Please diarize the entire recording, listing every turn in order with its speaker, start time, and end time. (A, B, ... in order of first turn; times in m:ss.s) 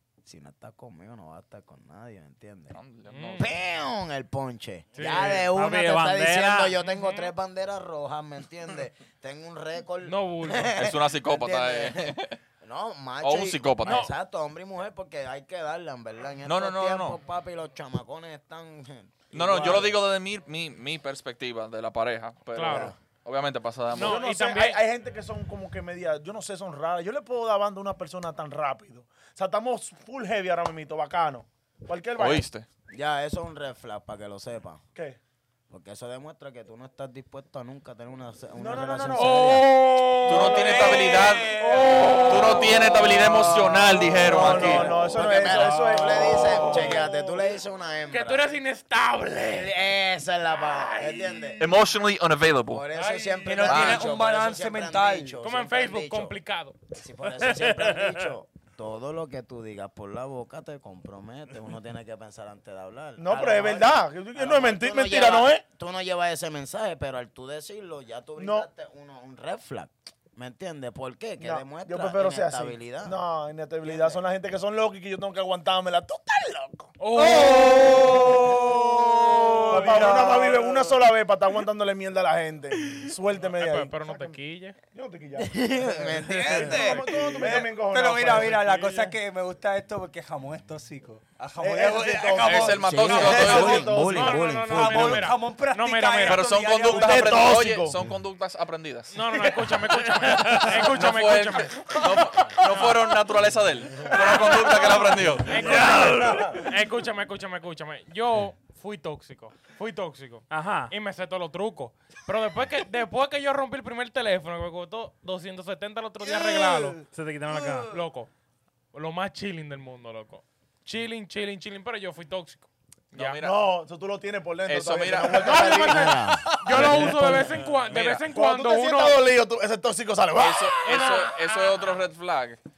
0:00.2-0:02.8 A
0:02.7-0:03.5 B
0:03.1-0:03.5 C
0:03.4-0:20.0 A
0:04.9-0:05.5 C
0:05.0-0:06.7 D
0:06.8-0:07.3 C
0:10.0-0:10.8 C
0:10.8-0:12.4 B
0:13.2-0:14.1 B
0:13.8-0:14.1 C
0:16.4-0:17.2 B
0:19.3-0:24.2 B
0:22.5-0:22.9 C
0:22.6-0:22.9 A
0:23.9-0:24.8 C
0:23.9-0:32.5 E
0:32.2-0:32.6 B
0:32.9-0:34.8 A
0:35.7-0:39.7 A
0:38.5-0:39.6 E
0:39.2-0:42.6 C
0:40.2-0:41.5 B
0:40.3-0:43.6 E
0:40.6-0:42.7 F
0:42.2-0:44.9 B
0:44.1-0:48.5 A
0:44.1-0:47.3 E
0:46.4-0:47.1 C
0:48.1-0:49.8 C
0:49.5-0:51.6 A
0:50.6-0:51.7 C
0:51.6-0:52.8 B
0:52.7-0:56.4 A
0:52.9-0:53.9 C
0:53.4-0:55.4 F
0:53.7-0:54.0 B
0:55.4-0:56.8 C
0:56.9-1:13.2 A
0:57.4-0:58.2 D
1:03.2-1:05.6 E
1:08.4-1:08.7 E
1:11.4-1:16.9 E
1:13.8-1:14.2 A
1:17.0-1:18.1 C
1:17.1-1:21.0 F
1:18.1-1:24.4 E
1:19.8-1:20.1 A
1:23.4-1:24.8 C
1:24.9-1:29.1 E
1:25.4-1:27.0 A
1:26.3-1:33.9 F
1:26.5-1:26.8 B
1:31.6-1:34.6 E
1:32.4-1:33.9 B
1:32.8-1:35.3 A
1:34.0-1:36.4 C
1:34.6-1:37.5 F
1:36.2-1:39.2 B
1:36.8-1:38.0 E
1:39.1-1:41.9 C
1:40.1-1:40.8 D
1:40.6-1:45.8 B
1:42.7-1:43.0 C
1:44.1-1:57.0 C
1:45.5-1:46.7 D
1:50.5-1:50.9 D
1:57.1-1:57.9 D
1:57.9-1:58.3 C
1:58.9-2:03.4 C
2:03.1-2:03.6 B
2:03.4-2:07.0 E
2:04.6-2:05.9 B
2:05.4-2:09.2 C
2:05.8-2:07.6 A
2:07.8-2:08.2 B
2:08.3-2:11.2 E
2:10.4-2:12.6 B
2:10.8-2:12.0 C